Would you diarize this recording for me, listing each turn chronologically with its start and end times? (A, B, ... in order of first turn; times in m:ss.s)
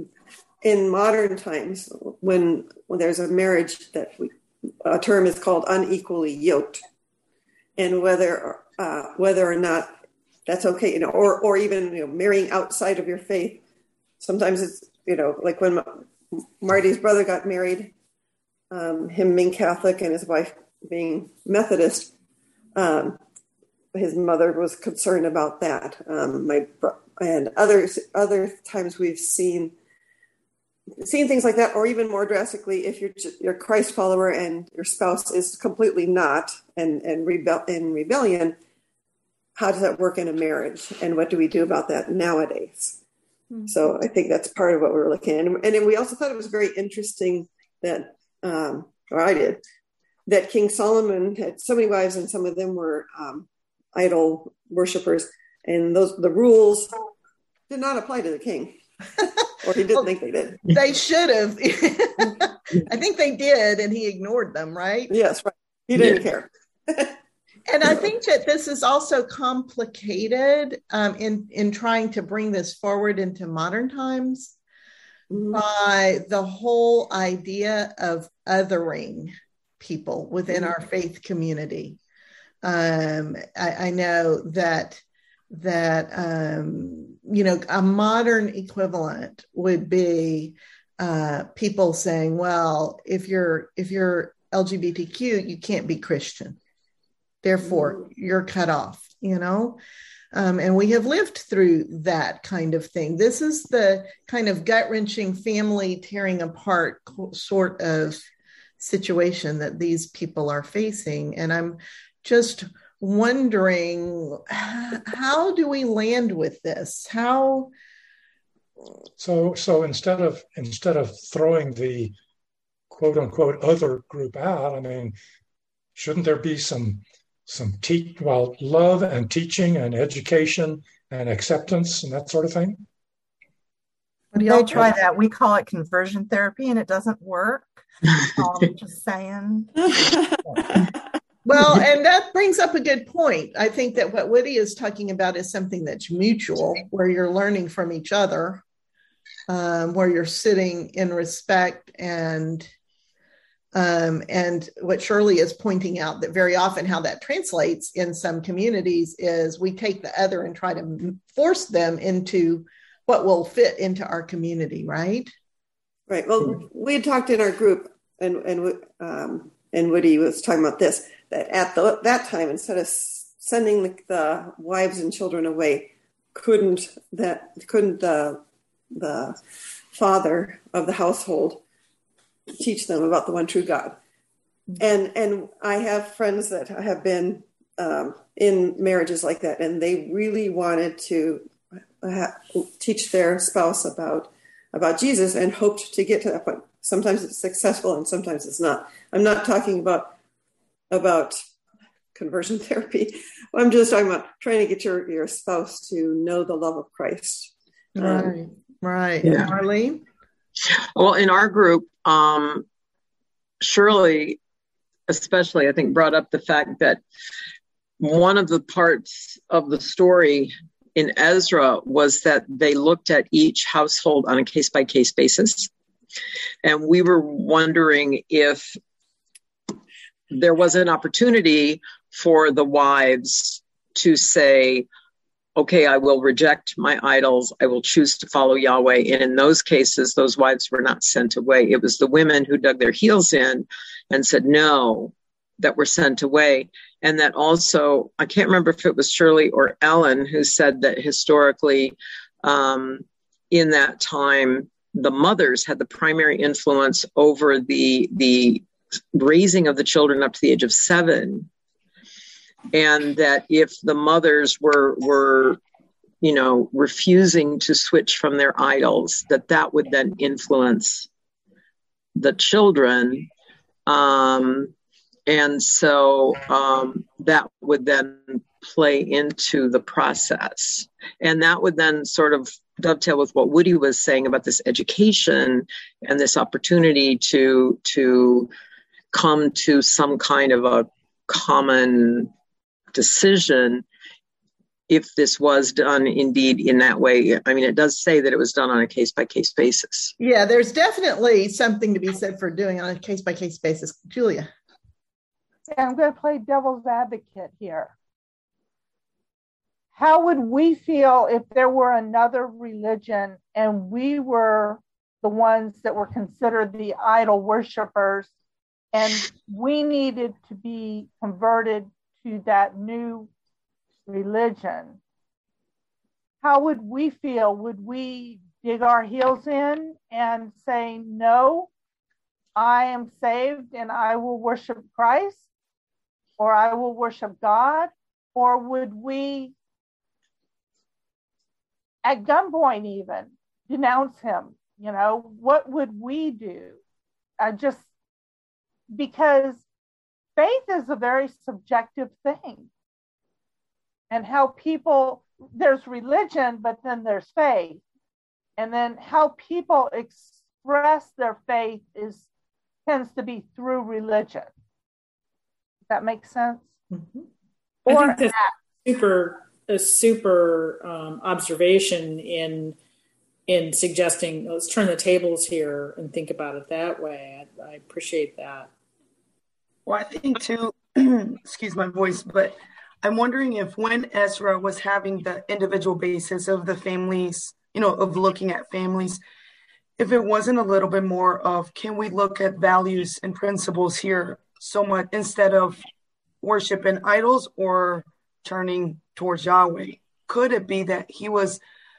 0:00.6-0:06.8 A
0:07.8-0:10.0 A
0:10.5-0:13.6 A
0:14.2-0:17.9 A
0:18.7-0:22.1 A
0:22.8-0:23.2 A
0:23.9-0:29.8 A
0:31.0-0:38.6 A
0:39.6-0:43.0 A
0:43.7-0:49.6 A
0:50.3-0:56.9 A
0:57.7-0:58.8 A
0:59.6-1:00.6 A
1:00.6-1:05.1 B
1:05.1-1:07.2 A
1:07.7-1:14.6 B
1:15.3-1:15.6 A
1:15.5-1:22.0 B
1:22.6-1:36.6 B
1:37.4-1:39.8 B
1:40.3-1:48.2 B
1:48.8-1:57.7 B
1:59.2-2:02.1 C
2:02.9-2:05.2 C
2:06.0-2:12.8 C
2:14.3-2:15.0 B
2:14.4-2:20.9 D
2:21.4-2:28.6 B
2:29.5-2:32.7 B
2:33.8-2:45.3 B
2:46.1-2:58.4 A
2:58.9-2:59.4 A
2:59.9-3:01.6 A
3:02.6-3:04.0 A
3:04.8-3:20.2 A
3:20.9-3:21.4 A
3:22.2-3:28.3 A
3:28.0-3:30.0 B
3:29.2-3:29.5 E
3:31.0-3:32.7 E
3:33.6-3:34.4 E
3:35.1-3:37.0 E
3:38.0-3:45.7 E
3:46.6-3:48.8 E
3:50.3-3:54.9 E
3:55.6-4:21.5 E
4:22.7-4:25.6 E
4:26.2-4:31.1 E
4:32.2-4:33.3 E
4:33.9-4:34.7 E
4:35.3-4:48.5 E
4:49.1-4:52.3 E
4:52.9-4:53.8 E
4:54.9-5:00.1 E
5:00.2-5:04.5 B
5:05.7-5:07.9 F
5:10.0-5:18.3 F
5:18.9-5:23.3 F
5:24.1-5:25.0 F
5:26.4-5:31.7 F
5:32.6-5:35.4 F
5:36.4-5:39.5 F
5:42.0-5:46.8 F
5:47.4-5:47.8 F
5:48.9-5:49.6 F
5:50.4-5:52.7 F
5:54.1-5:57.8 F
5:58.6-6:02.2 F
6:02.9-6:04.5 F
6:05.9-6:06.7 F
6:06.9-6:07.2 B
6:07.9-6:08.5 F
6:07.9-6:12.8 G
6:13.5-6:18.7 G
6:19.9-6:29.2 H
6:30.0-6:35.8 H
6:36.4-6:41.6 H